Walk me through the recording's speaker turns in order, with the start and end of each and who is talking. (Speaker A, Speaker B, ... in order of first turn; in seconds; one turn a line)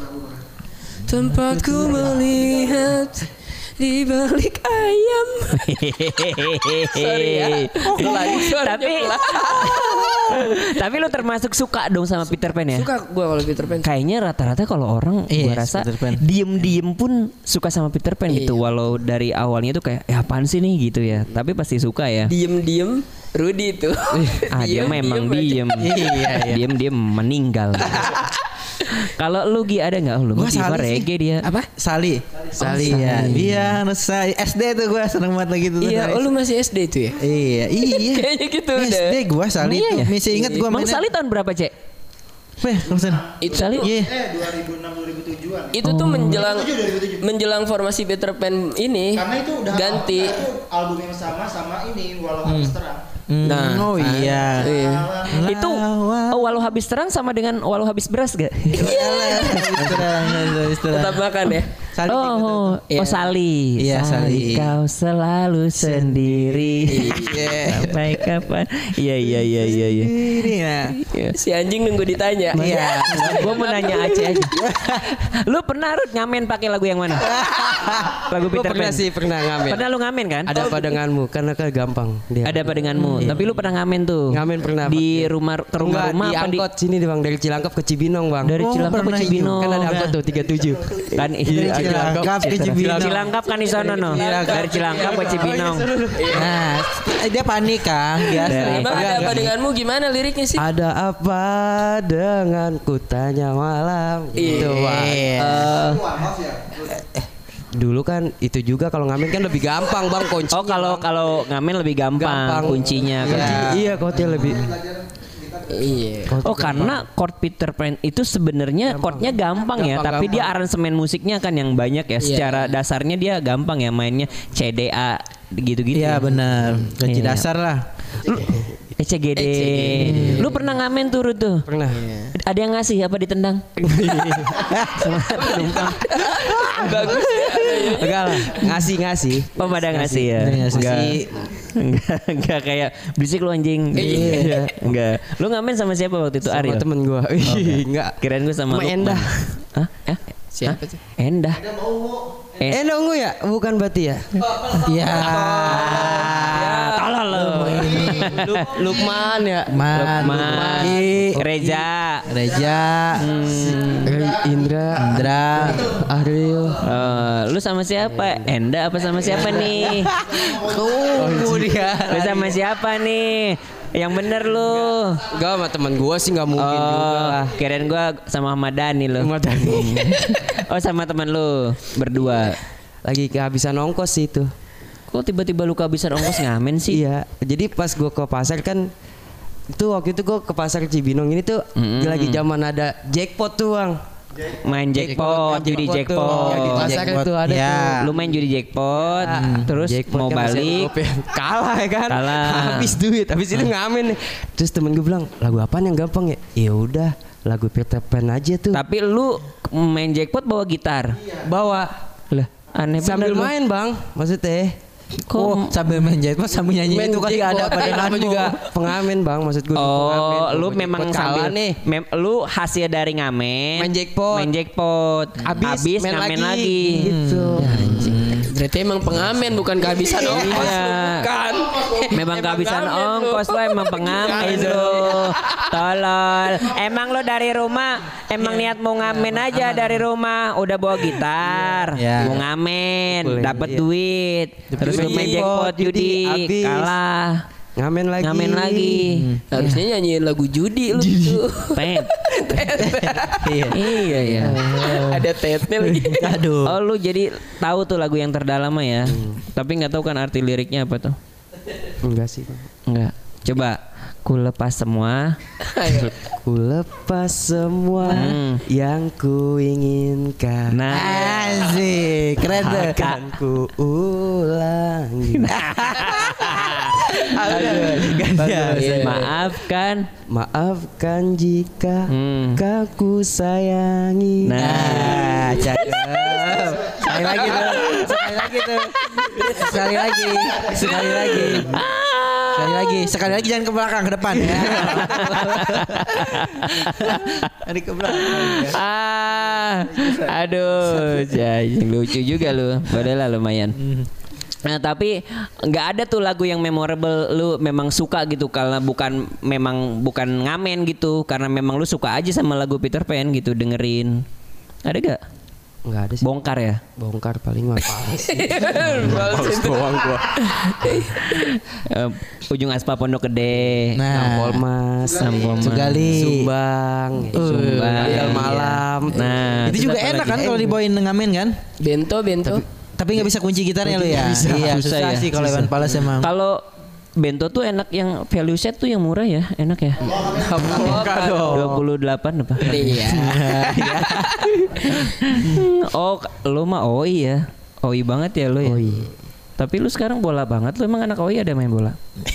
Speaker A: 1.1-5.7
Speaker B: 1.3-2.3
Speaker C: 5.5-12.9
Speaker A: 6.8-10.8
Speaker B: 7.9-8.3
Speaker A: 12.5-13.9
Speaker C: 13.8-22.3
Speaker B: 15.3-16.2
Speaker A: 18.3-18.7
Speaker A: 22.2-25.8
Speaker D: 24.1-24.5
Speaker C: 24.5-28.3
Speaker B: 25.8-26.7
Speaker C: 28.8-31.5
Speaker B: 30.3-31.1
Speaker A: 31.4-31.7
Speaker B: 31.8-36.3
Speaker D: 32.5-33.8
Speaker A: 35.8-37.2
Speaker B: 37.2-41.0
Speaker A: 37.8-39.2
Speaker C: 39.6-41.7
Speaker A: 40.2-40.6
Speaker B: 42.6-43.2
Speaker E: 42.9-47.2
Speaker A: 43.4-43.9
Speaker C: 43.5-43.8
Speaker B: 43.8-44.1
Speaker A: 45.7-50.5
Speaker C: 45.8-46.4
Speaker E: 49.1-53.0
Speaker B: 52.4-52.8
Speaker B: 53.3-54.7
Speaker A: 53.4-55.1
Speaker E: 54.2-55.5
Speaker B: 55.2-56.4
Speaker C: 55.4-60.1
Speaker B: 58.7-61.2
Speaker A: 58.7-61.7
Speaker B: 61.9-62.7
Speaker C: 62.1-70.2
Speaker A: 62.9-63.3
Speaker B: 63.8-64.7
Speaker B: 65.8-68.3
Speaker A: 66.9-67.5
Speaker B: 69.2-70.9
Speaker C: 71.1-71.3
Speaker A: 71.3-74.6
Speaker D: 72.5-72.8
Speaker B: 72.5-73.5
Speaker C: 72.8-74.5
Speaker B: 74.6-75.0
Speaker C: 75.0-77.3
Speaker B: 77.2-78.2
Speaker D: 77.3-79.9
Speaker C: 77.9-81.0
Speaker D: 80.5-83.6
Speaker C: 82.4-86.6
Speaker B: 83.0-83.3
Speaker D: 84.3-88.6
Speaker C: 88.4-90.1
Speaker B: 88.5-90.2
Speaker D: 89.4-93.2
Speaker C: 91.1-95.9
Speaker B: 91.5-93.3
Speaker A: 93.4-95.6
Speaker B: 94.0-95.4
Speaker D: 94.9-96.5
Speaker A: 96.1-96.6
Speaker B: 96.3-99.5
Speaker A: 98.3-100.7
Speaker C: 98.4-99.3
Speaker D: 100.6-105.4
Speaker A: 104.3-106.1
Speaker B: 104.5-105.9
Speaker E: 106.1-106.5
Speaker B: 106.9-107.2
Speaker D: 107.7-111.1
Speaker C: 110.5-113.7
Speaker D: 112.1-114.8
Speaker B: 113.2-114.2
Speaker A: 115.7-116.4
Speaker D: 116.2-117.0
Speaker C: 116.4-127.5
Speaker D: 118.8-120.5
Speaker A: 122.2-122.8
Speaker B: 125.9-127.8
Speaker C: 128.2-131.7
Speaker D: 128.5-128.8
Speaker D: 129.3-130.7
Speaker B: 130.0-130.5
Speaker D: 131.7-132.1
Speaker A: 131.9-132.3
Speaker C: 132.3-136.3
Speaker D: 133.8-134.6
Speaker B: 134.5-135.6
Speaker D: 135.4-135.8
Speaker A: 136.0-138.5
Speaker B: 136.6-137.7
Speaker D: 137.9-141.2
Speaker C: 138.5-138.8
Speaker C: 139.6-146.8
Speaker B: 140.3-141.5
Speaker B: 143.9-144.6
Speaker D: 144.0-144.9
Speaker D: 146.5-149.5
Speaker B: 147.5-147.8
Speaker C: 148.2-151.6
Speaker A: 150.5-151.0
Speaker E: 151.7-152.5
Speaker C: 152.6-152.8
Speaker D: 152.7-154.4
Speaker B: 154.8-156.8
Speaker D: 155.0-156.1
Speaker C: 155.7-158.8
Speaker E: 155.8-156.2
Speaker A: 156.0-157.2
Speaker D: 157.3-161.8
Speaker B: 157.4-158.7
Speaker B: 159.7-161.4
Speaker C: 159.9-162.3
Speaker B: 162.2-163.2
Speaker E: 162.4-163.0
Speaker C: 163.2-164.2
Speaker D: 163.5-166.9
Speaker B: 164.9-166.0
Speaker C: 166.8-170.1
Speaker D: 168.0-168.4
Speaker D: 169.2-170.3
Speaker B: 169.4-172.5
Speaker E: 169.9-171.4
Speaker D: 171.0-172.5
Speaker C: 172.1-175.2
Speaker D: 175.3-177.6
Speaker C: 176.5-182.6
Speaker D: 179.2-180.5
Speaker D: 183.0-184.5
Speaker C: 185.1-187.0
Speaker D: 186.9-188.9
Speaker D: 189.7-194.0
Speaker C: 191.8-192.4
Speaker C: 194.6-197.0
Speaker D: 194.9-208.8
Speaker B: 196.1-198.1
Speaker C: 198.0-200.9
Speaker B: 199.3-199.7
Speaker C: 202.1-203.0
Speaker C: 208.7-211.2
Speaker B: 211.4-211.9
Speaker C: 212.3-213.5
Speaker D: 213.0-214.8
Speaker C: 215.2-215.8
Speaker B: 215.3-218.6
Speaker D: 216.8-221.8
Speaker C: 219.7-228.4
Speaker D: 223.8-224.5
Speaker D: 225.4-228.1
Speaker B: 227.1-228.5
Speaker A: 228.3-235.8
Speaker C: 230.2-231.3
Speaker D: 230.3-230.7
Speaker E: 231.8-232.1
Speaker C: 232.1-247.4
Speaker B: 234.3-235.0
Speaker D: 239.5-239.8
Speaker D: 241.5-242.4
Speaker B: 241.9-242.4
Speaker D: 243.1-243.8
Speaker D: 244.8-246.9
Speaker B: 244.8-245.3
Speaker A: 244.8-245.4
Speaker D: 247.8-249.1
Speaker C: 248.2-249.8
Speaker B: 249.1-249.4
Speaker A: 249.5-253.9
Speaker B: 250.9-251.4
Speaker C: 251.7-252.6
Speaker B: 252.8-253.8
Speaker C: 253.7-254.6
Speaker D: 254.3-254.8
Speaker A: 254.6-256.4
Speaker B: 254.6-255.2
Speaker B: 255.8-256.8
Speaker C: 256.6-261.2
Speaker D: 259.0-259.4
Speaker D: 262.0-262.7
Speaker C: 262.9-265.4
Speaker A: 265.6-266.1
Speaker D: 266.0-271.8
Speaker C: 268.1-268.6
Speaker C: 270.7-271.6
Speaker B: 270.9-273.0
Speaker C: 272.5-273.2
Speaker D: 272.5-275.6
Speaker C: 275.3-278.1
Speaker B: 276.0-276.5
Speaker B: 277.1-279.3
Speaker D: 277.2-279.2
Speaker A: 278.4-279.2
Speaker C: 279.0-280.1
Speaker D: 280.3-285.1
Speaker C: 282.1-282.6
Speaker C: 284.4-285.9
Speaker B: 284.6-291.9
Speaker A: 285.0-287.9
Speaker E: 286.4-288.1
Speaker C: 287.1-289.6
Speaker A: 289.2-289.8
Speaker E: 290.0-291.9
Speaker C: 291.1-293.1
Speaker B: 292.5-298.8
Speaker D: 294.6-295.1
Speaker C: 294.6-297.5
Speaker C: 298.1-303.8
Speaker E: 300.0-300.3
Speaker B: 303.8-304.1
Speaker C: 304.6-314.2
Speaker C: 314.8-315.2
Speaker D: 315.8-316.3
Speaker C: 316.2-316.8
Speaker D: 316.9-320.2
Speaker A: 318.2-321.5
Speaker B: 318.9-320.2
Speaker C: 320.4-324.0
Speaker D: 323.5-330.8
Speaker B: 323.9-324.6
Speaker C: 325.2-326.2
Speaker E: 325.3-325.8
Speaker B: 325.6-326.5
Speaker B: 327.3-328.7
Speaker C: 327.3-330.5
Speaker B: 329.6-331.6
Speaker A: 331.8-332.6
Speaker D: 332.4-333.3
Speaker B: 333.0-336.3
Speaker D: 333.8-334.8
Speaker C: 334.5-335.3
Speaker D: 335.4-335.7
Speaker C: 336.2-336.6
Speaker C: 337.2-340.1
Speaker E: 340.0-341.3
Speaker A: 340.0-341.7
Speaker B: 340.6-341.8
Speaker D: 341.3-341.6
Speaker C: 341.4-342.9
Speaker A: 342.6-345.1
Speaker B: 342.6-345.6
Speaker C: 345.3-349.1
Speaker D: 348.6-349.1
Speaker C: 349.6-352.0